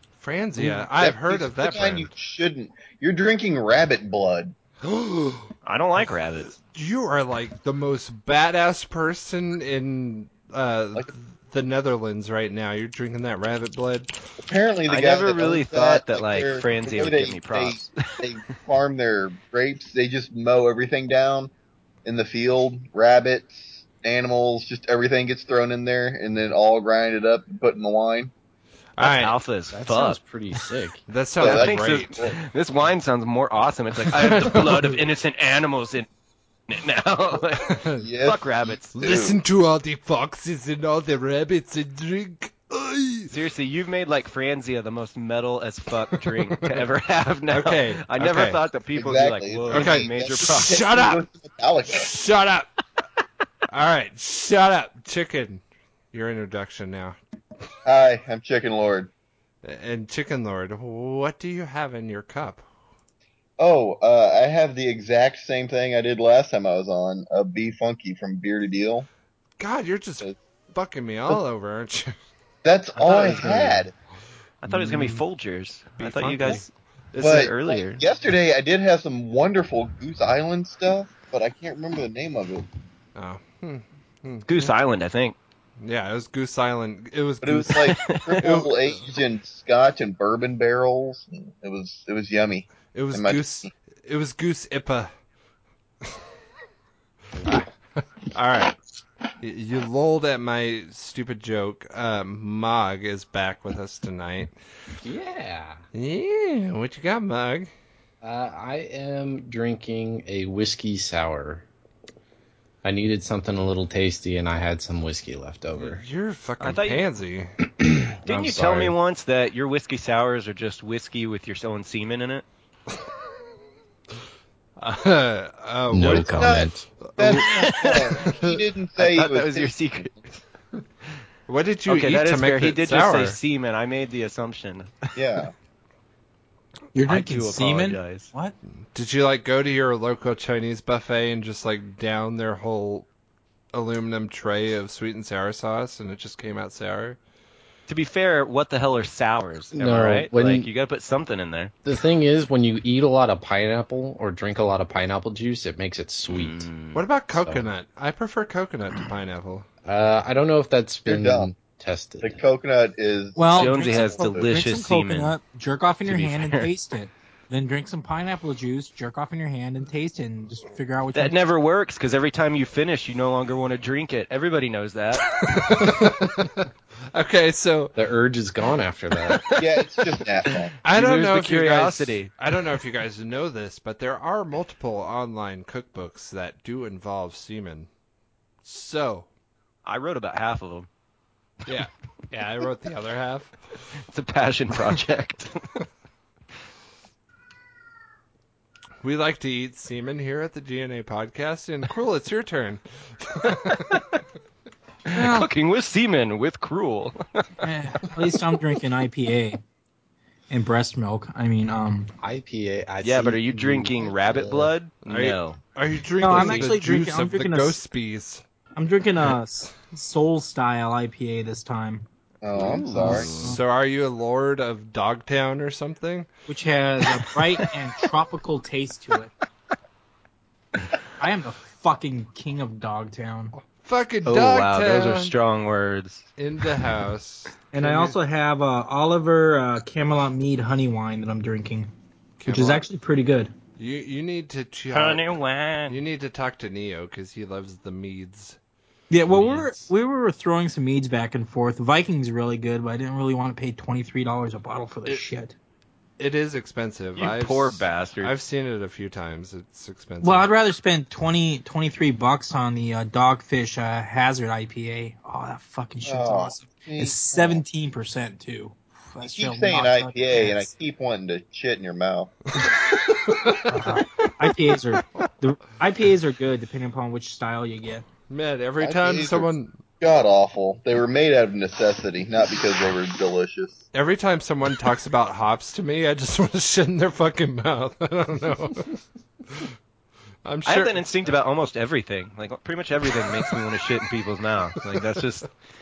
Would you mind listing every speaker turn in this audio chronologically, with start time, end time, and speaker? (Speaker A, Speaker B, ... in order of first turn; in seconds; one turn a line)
Speaker A: 0.2-2.1
Speaker B: 0.9-4.5
Speaker A: 4.8-14.1
Speaker C: 5.6-6.5
Speaker B: 14.4-21.5
Speaker C: 14.9-17.9
Speaker B: 22.0-28.3
Speaker A: 29.0-29.4
Speaker C: 29.0-30.2
Speaker D: 29.7-31.0
Speaker A: 31.1-32.3
Speaker B: 31.4-32.4
Speaker C: 31.4-36.1
Speaker A: 34.0-35.0
Speaker C: 36.7-39.0
Speaker A: 37.7-38.1
Speaker B: 38.0-39.4
Speaker A: 38.9-43.3
Speaker C: 43.3-50.8
Speaker A: 46.1-46.9
Speaker A: 47.5-48.6
Speaker B: 48.9-52.1
Speaker A: 49.7-51.2
Speaker A: 51.9-52.7
Speaker A: 53.7-57.2
Speaker B: 57.8-59.1
Speaker A: 59.6-62.6
Speaker B: 63.6-69.1
Speaker A: 69.6-72.1
Speaker B: 72.6-73.9
Speaker C: 73.0-73.8
Speaker C: 74.6-78.0
Speaker A: 74.7-75.2
Speaker A: 76.0-77.5
Speaker B: 77.2-82.7
Speaker A: 83.2-84.7
Speaker C: 84.5-85.3
Speaker A: 85.8-89.0
Speaker B: 87.4-93.7
Speaker C: 87.9-88.5
Speaker A: 92.9-95.1
Speaker D: 97.3-97.7
Speaker A: 98.3-98.8
Speaker A: 99.4-104.5
Speaker D: 105.0-105.8
Speaker A: 105.9-107.7
Speaker D: 108.2-111.7
Speaker D: 112.8-116.0
Speaker A: 115.7-117.6
Speaker C: 116.6-117.0
Speaker D: 117.8-119.0
Speaker C: 118.2-122.5
Speaker A: 124.8-127.4
Speaker D: 125.9-126.8
Speaker B: 126.1-130.2
Speaker C: 127.4-128.3
Speaker A: 128.2-128.6
Speaker C: 129.0-130.4
Speaker A: 131.5-133.4
Speaker C: 131.8-135.2
Speaker B: 135.2-135.5
Speaker E: 136.9-138.5
Speaker C: 137.0-138.3
Speaker A: 138.9-143.1
Speaker A: 143.7-147.2
Speaker C: 147.9-151.7
Speaker D: 149.7-150.7
Speaker D: 151.8-156.7
Speaker C: 156.3-157.0
Speaker A: 156.9-159.7
Speaker D: 159.8-162.4
Speaker B: 161.1-161.5
Speaker B: 162.2-164.5
Speaker E: 163.3-171.3
Speaker C: 163.5-165.3
Speaker C: 166.1-166.7
Speaker C: 171.1-175.7
Speaker A: 175.3-178.0
Speaker D: 177.9-179.4
Speaker C: 179.3-179.8
Speaker B: 179.6-180.8
Speaker C: 180.4-182.3
Speaker A: 180.8-187.9
Speaker A: 188.6-189.3
Speaker C: 189.8-190.9
Speaker A: 191.7-193.5
Speaker C: 194.0-195.7
Speaker A: 199.0-203.8
Speaker C: 203.4-204.2
Speaker C: 205.1-207.5
Speaker A: 205.1-205.5
Speaker E: 207.6-209.6
Speaker E: 210.5-212.1
Speaker D: 212.2-214.7
Speaker C: 213.0-215.6
Speaker A: 215.0-218.4
Speaker E: 216.2-217.8
Speaker C: 216.3-216.7
Speaker E: 218.8-222.1
Speaker B: 222.4-223.4
Speaker E: 222.6-223.6
Speaker C: 223.0-223.5
Speaker A: 223.1-226.3
Speaker E: 226.5-229.3
Speaker E: 231.2-233.6
Speaker A: 233.6-235.3
Speaker C: 234.2-236.3
Speaker A: 236.4-238.1
Speaker E: 237.7-241.9
Speaker A: 242.4-242.8
Speaker E: 242.5-243.5
Speaker A: 243.8-245.3
Speaker C: 244.9-246.0
Speaker A: 245.9-248.6
Speaker E: 249.1-255.5
Speaker A: 256.2-260.5
Speaker C: 257.1-258.3
Speaker E: 260.2-270.7
Speaker B: 266.0-267.6
Speaker B: 269.2-272.3
Speaker A: 272.6-274.3
Speaker E: 273.6-278.1
Speaker A: 278.3-279.8
Speaker B: 278.8-283.9
Speaker A: 283.9-289.7
Speaker A: 290.4-291.0
Speaker C: 290.6-295.5
Speaker A: 294.9-295.2